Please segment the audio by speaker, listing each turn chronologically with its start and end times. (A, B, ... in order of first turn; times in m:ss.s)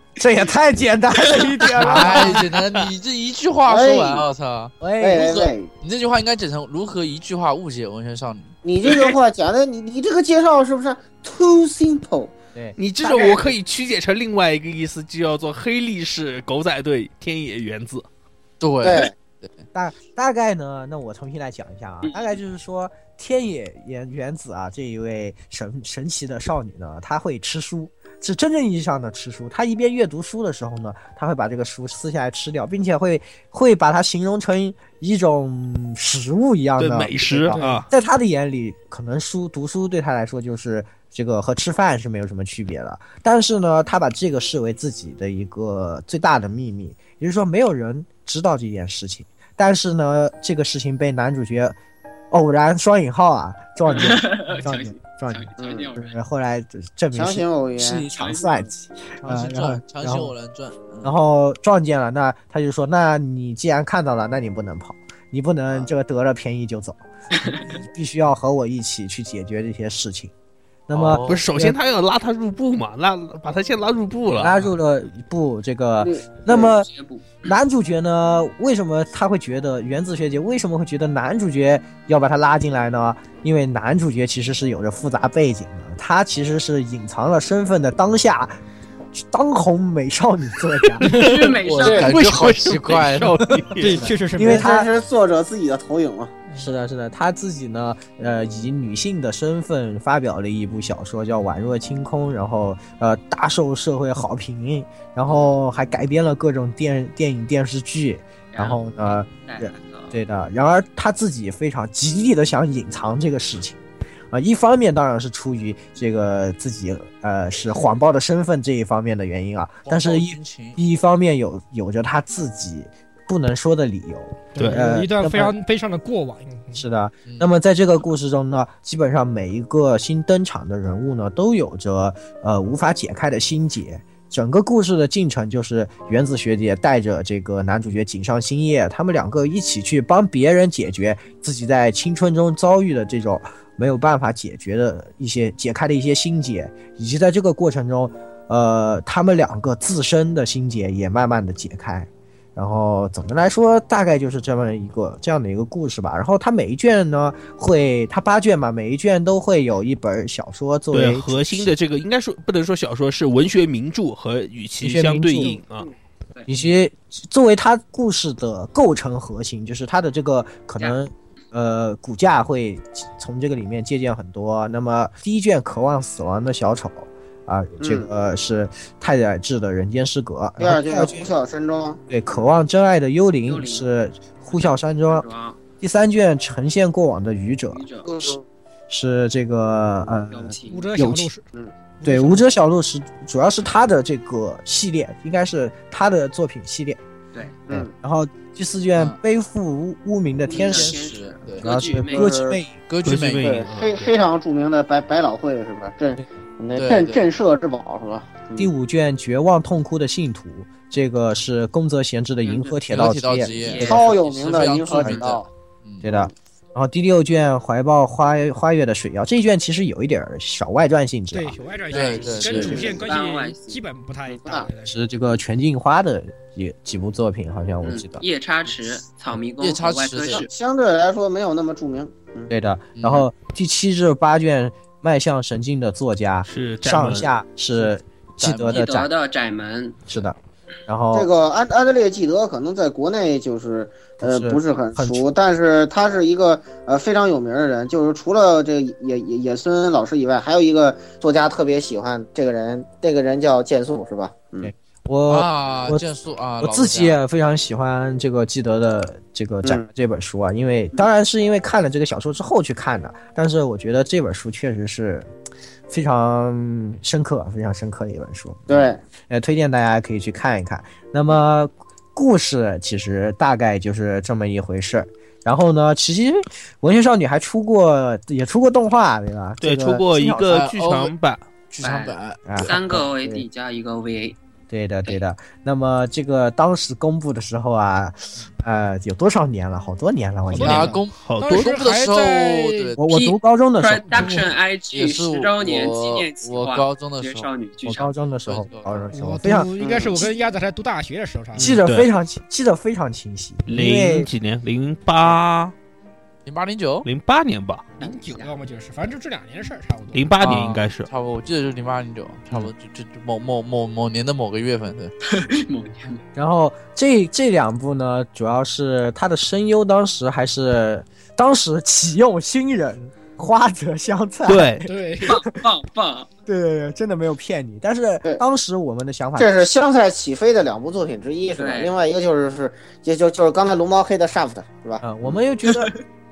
0:00.2-0:02.4 A
0:01.2-0:01.7 B
0:01.8-0:08.5 C
0:02.5-0:02.9 D
0:03.7-0:04.3 E
0:04.8-0:05.4 A
0:05.0-0:05.7 E
0:08.6-0:12.3 E
0:12.5-0:13.6 A
0:12.8-0:18.0 D
0:18.6-0:19.6 C
0:18.8-0:19.1 E
0:19.7-0:51.8 A
0:36.8-0:37.9 D
0:37.5-0:37.8 F
0:52.3-1:00.3 A
0:53.8-0:56.1 B
0:55.6-0:55.9 E
0:57.1-0:58.1 E
0:58.2-0:58.7 B
0:59.2-1:01.1 C
1:01.0-1:10.3 A
1:07.4-1:07.8 B
1:10.9-1:11.8 A
1:10.9-1:11.4 C
1:11.2-1:14.6 D
1:14.3-1:16.9 A
1:16.0-1:16.7 E
1:16.6-1:17.4 B
1:17.4-1:28.6 A
1:29.1-1:31.1 A
1:30.8-1:34.1 D
1:31.1-1:32.3 B
1:31.6-1:33.5 C
1:33.5-1:34.9 A
1:33.8-1:34.7 F
1:34.4-1:36.3 E
1:36.6-1:53.8 A
1:48.5-1:48.8 B
1:49.3-1:50.1 B
1:54.3-2:05.5 A
1:59.8-2:00.8 C
2:04.5-2:06.8 F
2:04.6-2:04.8 D
2:06.7-2:41.7 A
2:40.9-2:45.9 D
2:44.8-2:45.6 A
2:46.5-3:01.3 A
2:57.8-2:58.1 E
3:00.6-3:02.0 E
3:02.1-3:05.2 A
3:03.4-3:03.9 B
3:04.5-3:05.6 B
3:05.8-3:07.8 A
3:07.7-3:08.1 B
3:08.0-3:08.4 E
3:08.9-3:11.3 A
3:10.2-3:10.9 B
3:10.7-3:11.4 F
3:12.0-3:12.4 F
3:12.0-3:17.0 A
3:17.6-3:17.9 E
3:17.7-3:22.8 A
3:20.5-3:22.4 B
3:20.6-3:21.7 C
3:22.1-3:22.6 E
3:22.8-3:23.5 C
3:23.0-3:24.1 D
3:23.4-3:28.7 E
3:26.8-3:27.2 C
3:28.6-3:34.0 A
3:32.4-3:32.8 B
3:32.9-3:36.0 C
3:33.5-3:34.2 B
3:33.7-3:35.5 E
3:36.0-3:41.6 A
3:36.0-3:36.3 E
3:41.3-3:45.0 F
3:41.9-3:42.9 C
3:42.5-3:43.0 A
3:42.6-3:43.8 B
3:42.6-3:43.0 E
3:44.3-3:44.7 E
3:44.8-3:48.2 A
3:47.8-3:50.5 B
3:49.6-3:50.4 C
3:50.3-3:52.5 E
3:52.5-3:59.1 A
3:53.0-3:53.3 C
3:56.4-3:57.3 D
3:58.4-3:58.8 C
3:58.7-4:00.0 B
4:00.1-4:00.4 A
4:00.9-4:01.3 A
4:01.1-4:14.7 E
4:04.2-4:05.3 A
4:14.6-4:16.0 A
4:15.3-4:17.2 C
4:16.6-4:25.3 A
4:25.9-4:40.6 A
4:28.7-4:29.0 E
4:39.6-4:41.5 D
4:40.5-4:41.1 C
4:41.7-4:42.8 C
4:41.8-4:44.4 B
4:42.5-4:43.4 A
4:44.7-4:51.0 A
4:50.5-4:52.9 F
4:50.6-4:53.0 C
4:51.2-4:51.7 D
4:53.0-4:54.4 A
4:53.1-4:58.1 B
4:54.1-4:54.5 F
4:54.9-4:57.5 C
4:57.8-4:59.7 A
4:58.5-4:59.1 C
4:59.1-5:01.8 F
4:59.8-5:00.3 E
5:01.6-5:02.1 D
5:01.6-5:04.3 A
5:03.6-5:05.7 D
5:06.4-5:07.0 C
5:07.0-5:07.9 D
5:08.0-5:10.2 F
5:10.1-5:11.1 D
5:10.4-5:15.1 C
5:15.2-5:16.2 B
5:16.3-5:25.4 A
5:24.4-5:24.8 D
5:24.8-5:25.4 F
5:25.2-5:26.3 B
5:26.5-5:29.5 A
5:29.4-5:35.4 E
5:31.6-5:32.0 B
5:35.0-5:35.9 A